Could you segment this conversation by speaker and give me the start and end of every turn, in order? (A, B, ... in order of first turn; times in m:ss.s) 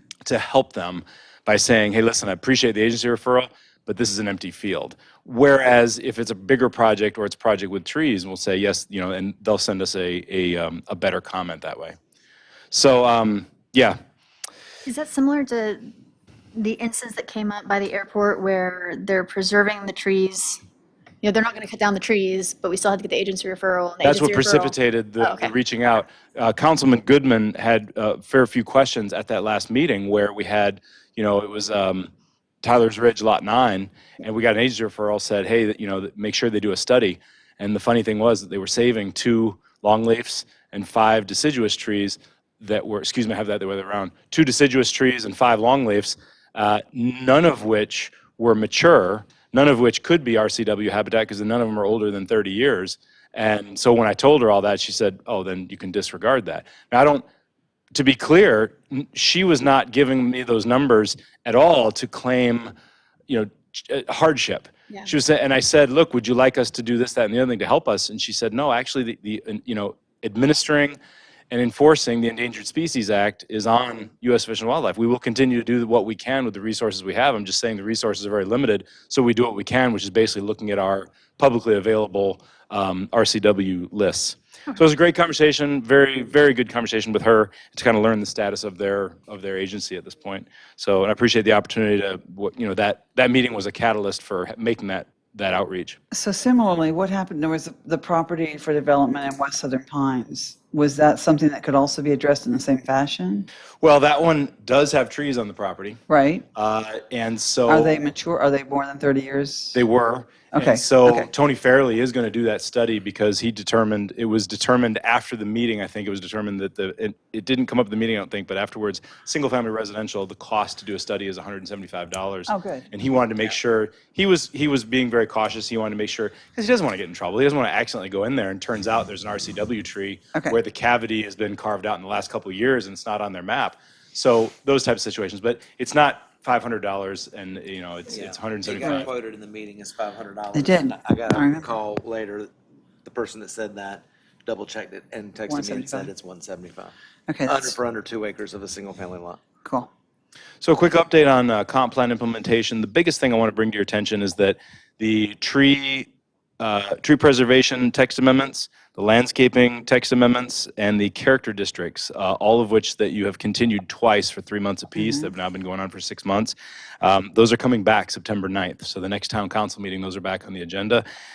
0:00.2-0:12.0 A
0:12.7-0:14.0 A
0:14.8-0:15.8 B
0:16.6-0:20.6 B
0:21.2-0:25.6 B
0:24.0-0:32.1 A
0:32.6-0:57.2 A
0:57.9-1:02.7 A
1:03.3-1:11.0 A
1:11.5-1:36.0 A
1:36.1-1:43.5 C
1:43.8-1:46.0 A
1:46.1-1:46.4 C
1:46.6-1:47.9 A
1:47.7-1:49.8 C
1:49.7-2:19.1 A
1:50.5-1:51.3 C
2:02.5-2:02.9 C
2:10.3-2:10.6 C
2:18.1-2:22.5 D
2:20.5-2:21.7 C
2:23.0-2:26.9 D
2:25.5-2:26.1 C
2:27.3-2:27.8 C
2:27.5-2:29.4 D
2:29.6-2:29.9 C
2:30.6-2:36.1 A
2:36.6-2:51.0 A
2:45.0-2:45.3 C